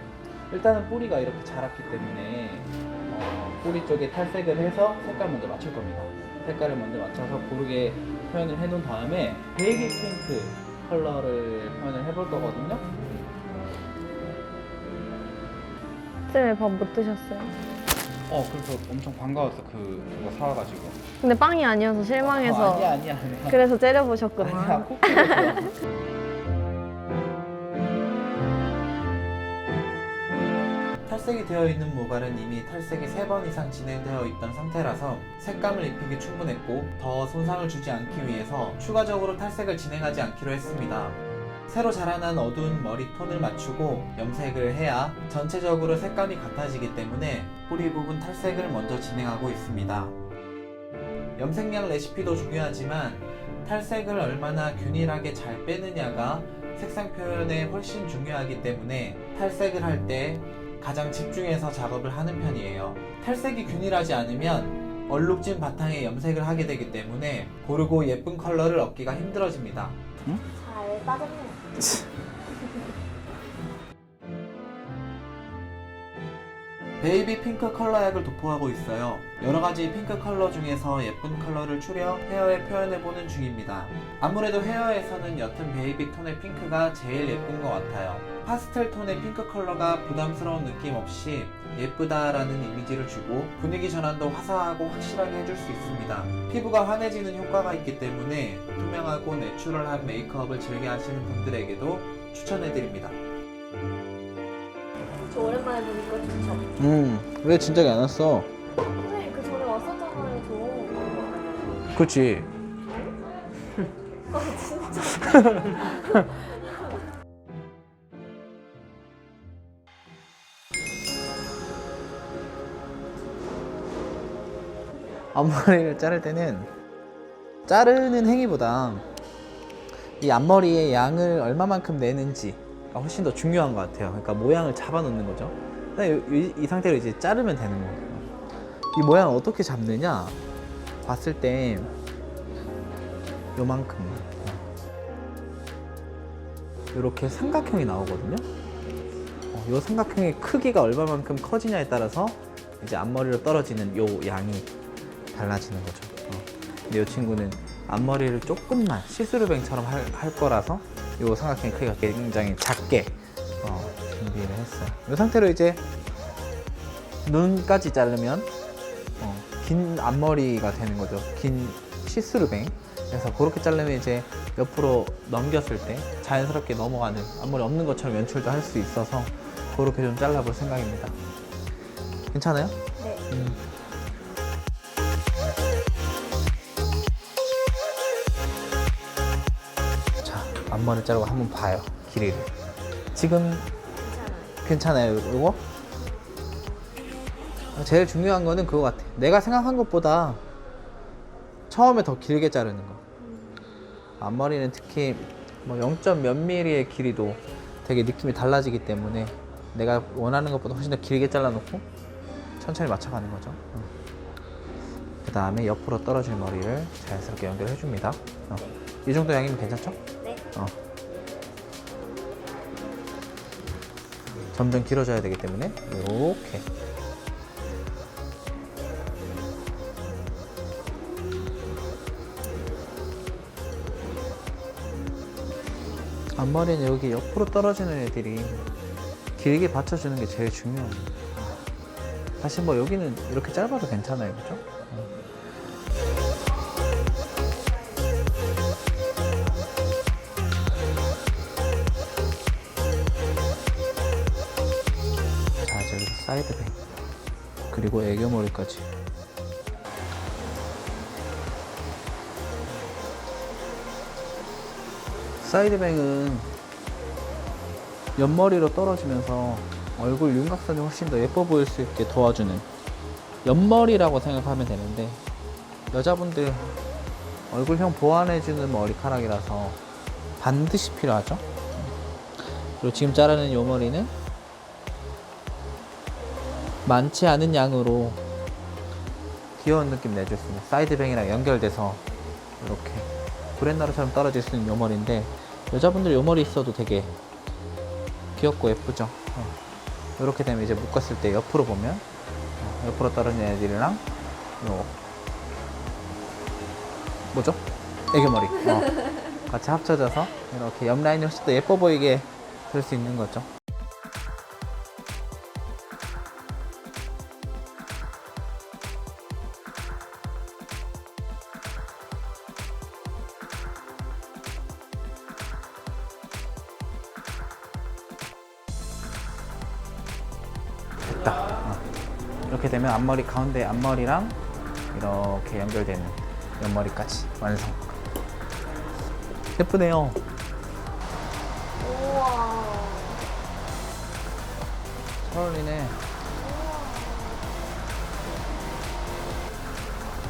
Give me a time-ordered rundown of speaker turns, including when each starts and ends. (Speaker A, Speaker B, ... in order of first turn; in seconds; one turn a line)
Speaker A: 0.5-12.8
Speaker B: 16.3-17.5
Speaker A: 18.3-21.0
Speaker B: 21.2-22.9
Speaker A: 22.2-23.6
Speaker B: 23.5-25.6
Speaker A: 24.4-25.7
Speaker A: 31.1-50.1
Speaker A: 51.4-70.4
Speaker B: 70.5-71.7
Speaker A: 71.8-72.1
Speaker A: 77.0-103.2
Speaker B: 105.1-106.7
Speaker A: 106.8-108.5
Speaker B: 109.0-111.5
Speaker A: 111.9-112.5
Speaker B: 114.3-116.5
Speaker A: 125.3-126.7
Speaker A: 127.7-129.1
Speaker A: 130.2-138.3
Speaker A: 138.9-140.4
Speaker A: 141.0-141.9
Speaker A: 143.6-144.6
Speaker A: 146.9-148.4
Speaker A: 149.5-154.7
Speaker A: 155.3-165.8
Speaker A: 167.2-168.5
Speaker A: 169.2-181.2
Speaker A: 182.3-182.8
Speaker A: 183.3-183.6
Speaker A: 190.2-192.5
Speaker A: 193.1-193.7
Speaker B: 194.1-194.6
Speaker A: 194.6-195.6
Speaker A: 197.8-200.4
Speaker A: 201.7-203.0
Speaker B: 203.2-203.6
Speaker A: 204.2-211.9
Speaker A: 212.6-213.9
Speaker A: 215.2-220.0
Speaker A: 224.5-226.7
Speaker A: 236.3-238.7
Speaker A: 239.4-241.6
Speaker A: 242.4-245.1
Speaker A: 255.6-256.8
Speaker A: 257.7-258.9
Speaker A: 265.4-266.5
Speaker A: 268.1-272.7
Speaker A: 273.4-275.2
Speaker A: 275.9-276.8
Speaker A: 277.5-279.8
Speaker A: 280.4-284.1
Speaker A: 286.9-288.2
Speaker A: 289.6-292.0
Speaker A: 292.6-297.1
Speaker A: 298.4-299.6
Speaker A: 300.2-302.0
Speaker A: 302.6-304.0
Speaker A: 304.6-304.9
Speaker A: 307.3-313.5
Speaker A: 331.0-331.8
Speaker A: 332.5-334.4
Speaker A: 334.9-338.0
Speaker A: 339.6-340.2
Speaker B: 341.8-343.2
Speaker A: 345.2-346.0
Speaker B: 346.4-347.5